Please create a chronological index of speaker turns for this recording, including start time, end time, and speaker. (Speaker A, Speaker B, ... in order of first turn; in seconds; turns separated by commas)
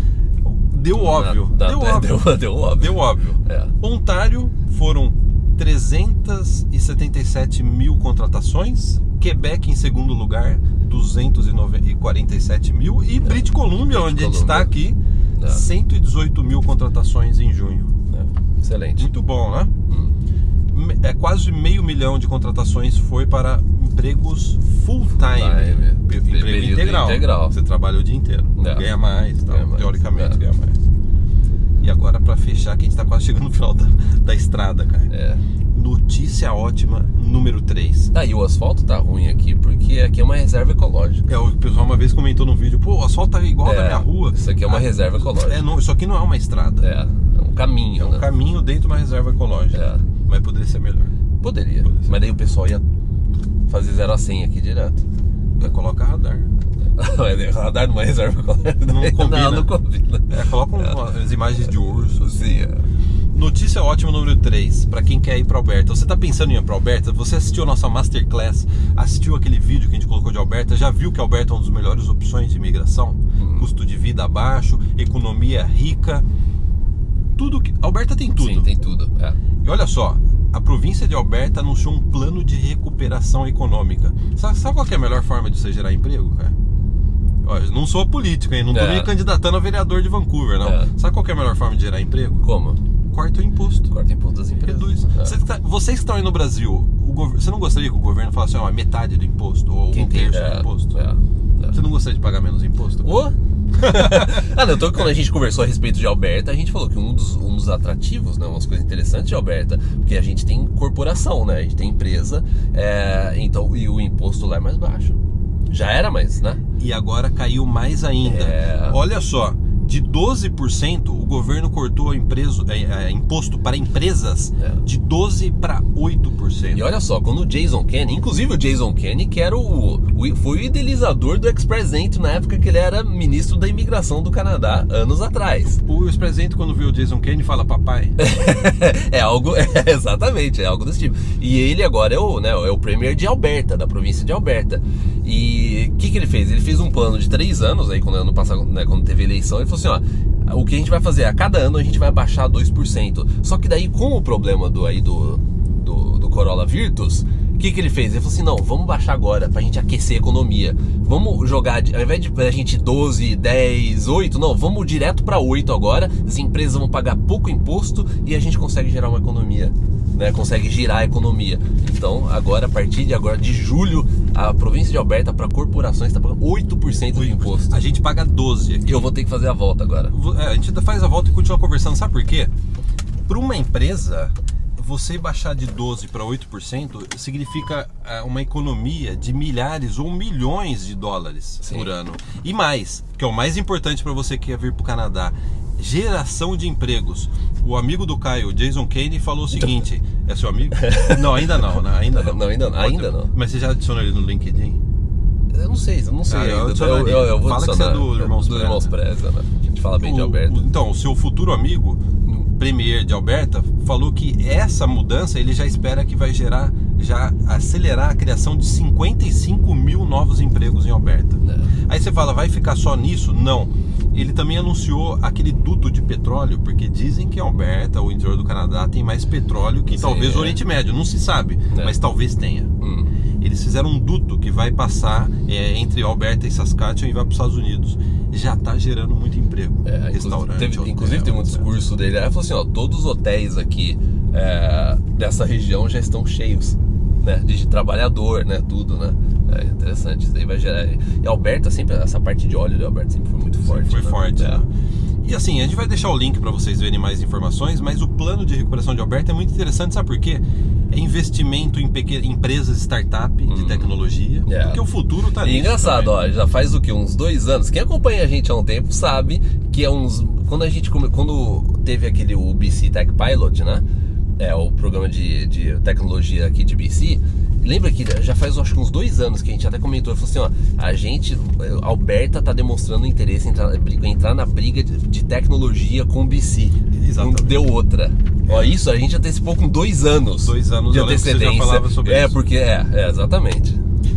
Speaker A: 0.4-17.9, Speaker B: 0.9-3.7, Speaker B: 13.2-14.7, Speaker B: 15.4-15.7, Speaker B: 18.1-19.1, Speaker A: 19.0-19.7, Speaker B: 19.9-20.1, Speaker A: 20.7-30.8, Speaker B: 25.1-27.6, Speaker B: 28.6-28.9, Speaker B: 29.4-30.4, Speaker A: 31.8-35.1, Speaker B: 35.1-35.4, Speaker A: 35.7-38.1, Speaker B: 38.1-41.2, Speaker A: 41.3-46.9, Speaker B: 43.6-45.6, Speaker B: 46.8-48.3, Speaker A: 48.0-51.1, Speaker B: 49.7-50.0, Speaker B: 51.4-52.8, Speaker A: 51.8-52.3, Speaker B: 53.7-55.0, Speaker A: 55.5-56.5, Speaker B: 57.0-61.1, Speaker A: 58.8-59.7, Speaker A: 60.3-62.3, Speaker B: 61.7-62.9, Speaker A: 63.3-76.2, Speaker B: 73.4-73.7, Speaker A: 77.3-78.7, Speaker B: 78.3-79.4, Speaker A: 79.6-86.5, Speaker A: 87.4-92.5, Speaker B: 88.7-89.1, Speaker B: 90.6-90.9, Speaker B: 92.4-92.8, Speaker A: 93.1-93.9, Speaker B: 93.9-95.3, Speaker A: 94.7-101.0, Speaker B: 99.9-101.8, Speaker A: 101.7-103.2, Speaker B: 103.0-115.2, Speaker A: 103.8-104.5, Speaker B: 115.7-116.6, Speaker A: 116.8-126.8, Speaker B: 118.2-119.0, Speaker B: 126.7-135.8, Speaker A: 135.8-138.2, Speaker B: 138.2-177.8, Speaker A: 177.1-178.9, Speaker B: 178.8-180.1, Speaker A: 180.1-182.5, Speaker A: 183.3-204.8, Speaker B: 191.6-191.9, Speaker B: 200.7-203.3, Speaker B: 205.5-210.7, Speaker A: 206.3-208.9, Speaker A: 210.0-232.7, Speaker B: 221.4-221.7, Speaker B: 229.9-230.6, Speaker B: 232.8-233.1, Speaker A: 233.4-241.7, Speaker B: 239.8-254.6, Speaker A: 253.5-254.7, Speaker A: 255.2-266.1, Speaker B: 263.5-263.9, Speaker B: 264.4-264.8, Speaker B: 265.4-273.8, Speaker B: 274.4-293.8, Speaker A: 286.9-287.7, Speaker A: 288.4-288.7, Speaker A: 290.4-292.4